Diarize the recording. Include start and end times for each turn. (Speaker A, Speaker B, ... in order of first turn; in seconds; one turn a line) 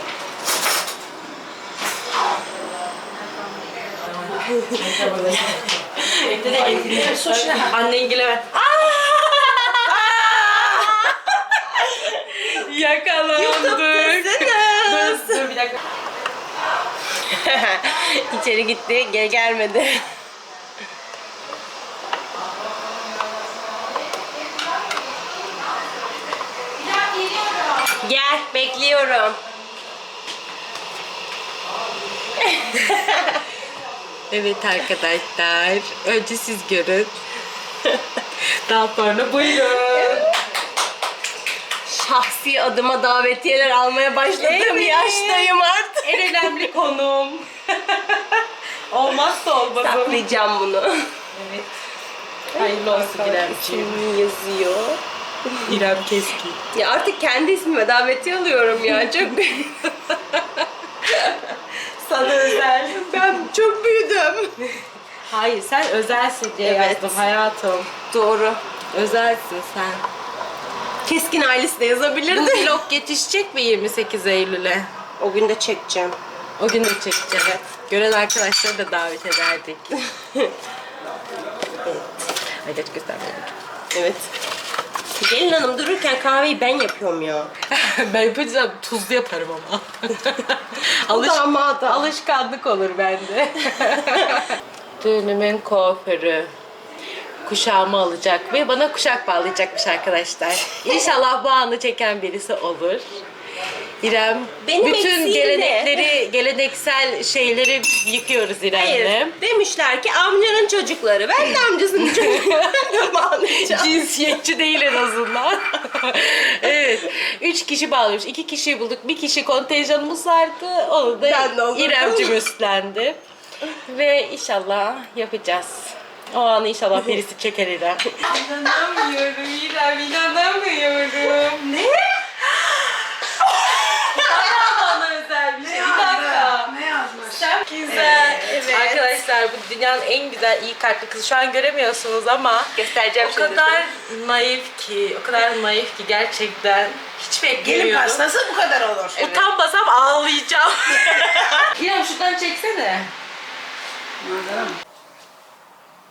Speaker A: 4.3-15.8
Speaker B: 7.0-7.7
Speaker C: 8.6-12.2
Speaker C: 13.3-15.5
Speaker C: 17.2-20.0
Speaker A: 27.0-27.7
Speaker C: 27.9-29.4
Speaker C: 32.4-33.4
Speaker A: 34.3-37.2
Speaker A: 38.3-40.3
Speaker C: 39.9-40.3
Speaker C: 41.8-46.7
Speaker A: 44.4-50.2
Speaker C: 49.8-51.1
Speaker A: 51.3-51.7
Speaker C: 52.5-55.8
Speaker A: 52.6-54.1
Speaker A: 55.6-56.6
Speaker C: 56.7-60.2
Speaker A: 60.1-63.5
Speaker C: 61.1-61.4
Speaker C: 62.3-64.8
Speaker A: 65.3-67.9
Speaker C: 66.6-67.3
Speaker C: 68.1-68.6
Speaker A: 68.9-70.1
Speaker C: 71.1-72.8
Speaker A: 72.3-74.9
Speaker C: 75.2-76.2
Speaker A: 76.6-80.0
Speaker C: 80.1-80.5
Speaker A: 81.8-83.5
Speaker C: 83.9-84.3
Speaker C: 85.2-87.5
Speaker A: 87.7-96.5
Speaker C: 91.1-92.1
Speaker C: 94.0-94.5
Speaker A: 97.5-103.1
Speaker A: 104.0-109.4
Speaker C: 104.6-106.2
Speaker C: 108.8-114.0
Speaker A: 112.0-148.4
Speaker C: 121.2-122.4
Speaker B: 135.8-137.4
Speaker C: 137.9-139.2
Speaker C: 142.8-143.9
Speaker B: 147.6-149.2
Speaker A: 149.1-153.1
Speaker C: 151.0-151.7
Speaker C: 154.2-154.8